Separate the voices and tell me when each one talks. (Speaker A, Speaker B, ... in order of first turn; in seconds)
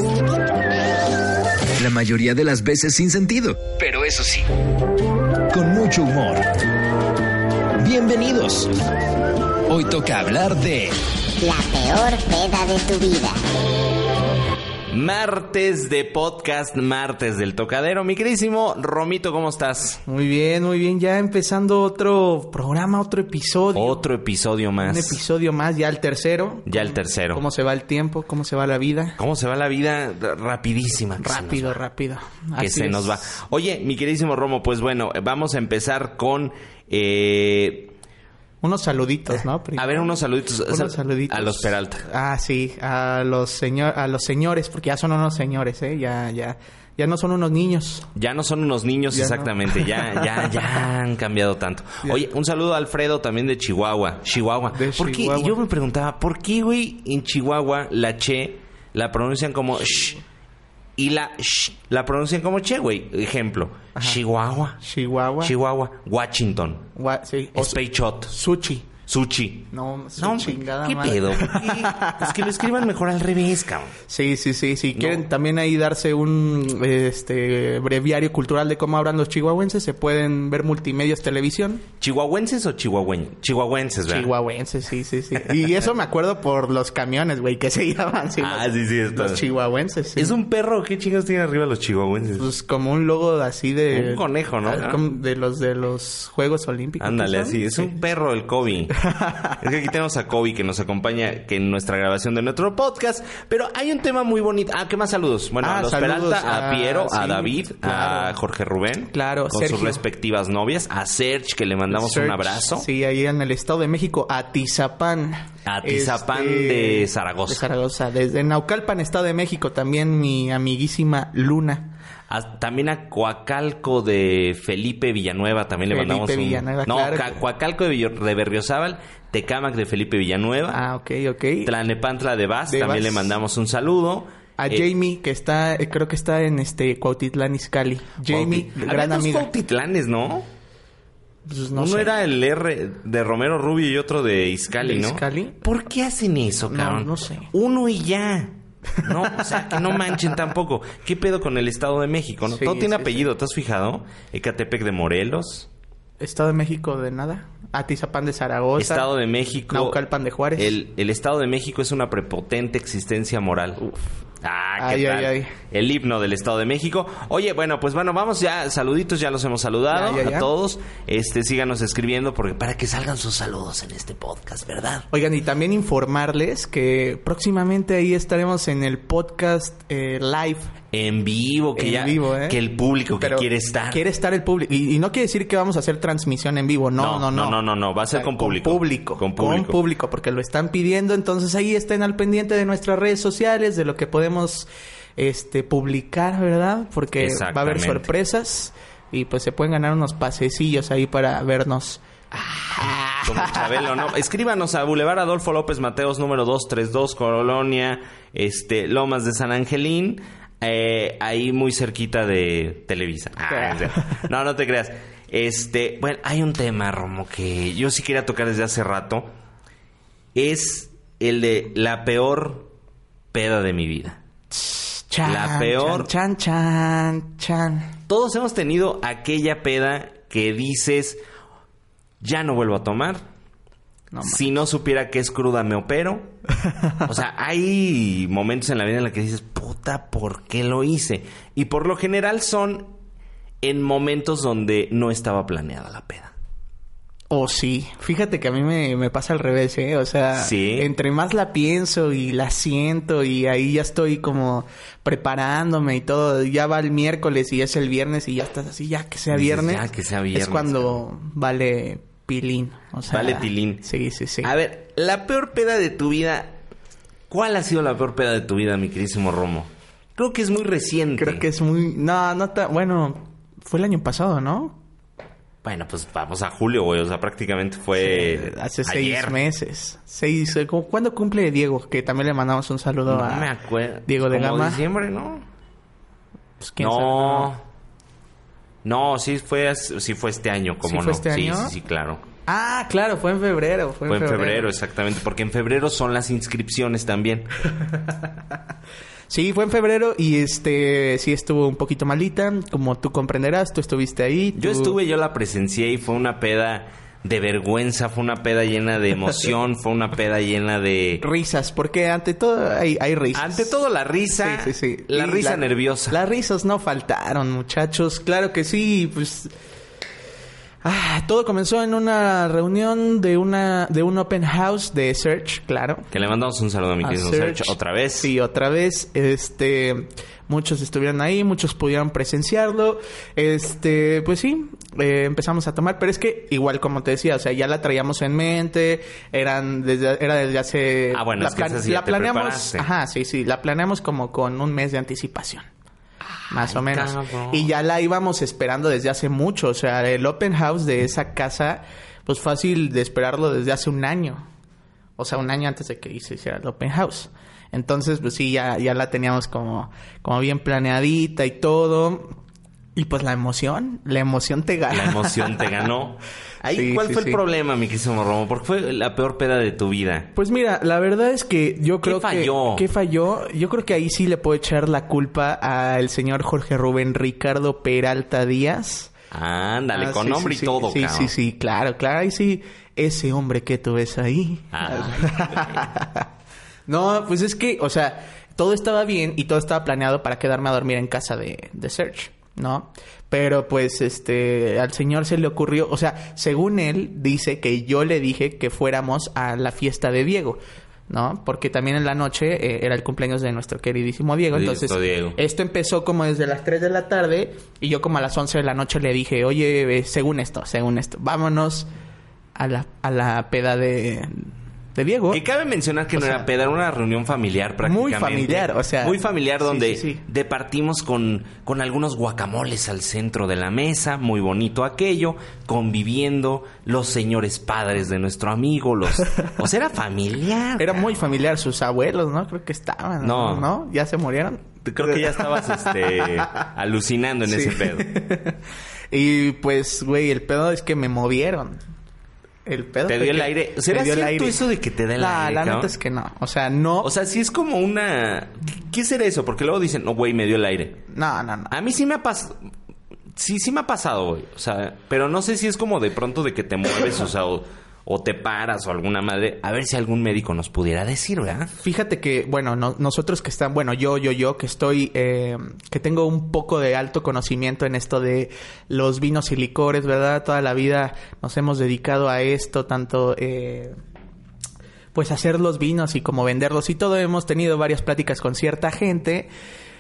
Speaker A: 1.8-4.5, 5.5-6.4, 7.8-8.7, 9.7-10.9
Speaker B: 11.4-13.4
Speaker C: 14.9-20.0, 23.7-25.2, 26.7-27.4, 29.2-31.8, 32.6-37.9, 39.8-42.1, 48.1-60.2, 61.0-64.8, 65.4-66.9, 67.5-68.4, 69.1-74.0, 75.0-75.2, 82.0-84.3, 88.4-89.4, 90.2-92.5, 93.9-95.0, 97.0-99.0, 99.6-112.9, 115.7-117.7, 122.3-130.8, 131.6-134.9, 138.3-140.5, 141.8-155.7, 158.8-160.0, 160.6-163.9, 164.4-175.1, 180.9-184.0, 187.0-189.8, 197.2-198.1, 202.3-219.3, 220.3-222.7, 223.3-224.2, 225.2-226.1, 228.1-231.2, 232.2-233.2, 234.2-236.3, 237.1-242.9, 243.6-246.3, 250.4-250.9, 259.3-261.0, 263.1-263.8, 264.4-266.6, 267.3-271.4, 275.6-279.4, 283.1-285.4, 286.8-287.6, 288.8-292.2, 294.1-297.5, 304.6-311.2, 313.3-316.2, 326.1-328.3, 341.1-342.9, 346.2-347.7, 364.9-370.3, 372.0-372.9, 379.3-381.3, 384.7-385.9, 404.5-405.4, 415.3-431.4, 433.2-433.7, 434.8-438.1, 443.1-445.9, 447.0-451.0, 451.7-452.6, 453.4-461.7
Speaker D: 20.1-24.0, 24.8-29.2, 31.2-33.2, 38.6-40.1, 40.7-48.1, 49.1-50.8, 54.7-55.6, 64.8-65.5, 67.0-68.9, 69.7-72.5, 74.1-81.8, 84.1-90.4, 92.4-97.9, 99.1-99.6, 105.6-108.4, 109.1-110.0, 111.9-121.9, 125.9-127.4, 130.7-131.7, 132.7-133.3, 134.6-139.5, 141.5-142.1, 144.8-145.6, 146.7-147.5, 149.0-150.3, 152.5-153.3, 156.2-159.1, 159.7-160.8, 164.8-165.5, 169.9-170.5, 175.1-180.7, 181.8-182.6, 183.1-187.6, 188.1-202.0, 202.8-203.7, 213.5-214.2, 224.5-227.9, 234.1-234.4, 247.3-264.5, 271.2-274.8, 278.0-283.5, 284.1-284.8, 286.6-287.5, 290.8-291.7, 292.5-294.7, 299.3-305.0, 311.2-313.7, 314.3-319.5, 320.8-326.1, 327.0-345.7, 346.5-354.4, 355.2-362.4, 363.0-365.8, 366.7-367.4, 370.4-379.1, 379.9-386.3, 386.9-411.9, 412.6-415.4, 417.8-420.2, 430.8-436.6, 437.5-438.6, 439.1-441.8, 442.7-444.6, 445.2-447.1, 451.1-451.7, 461.8-473.9, 475.1-479.5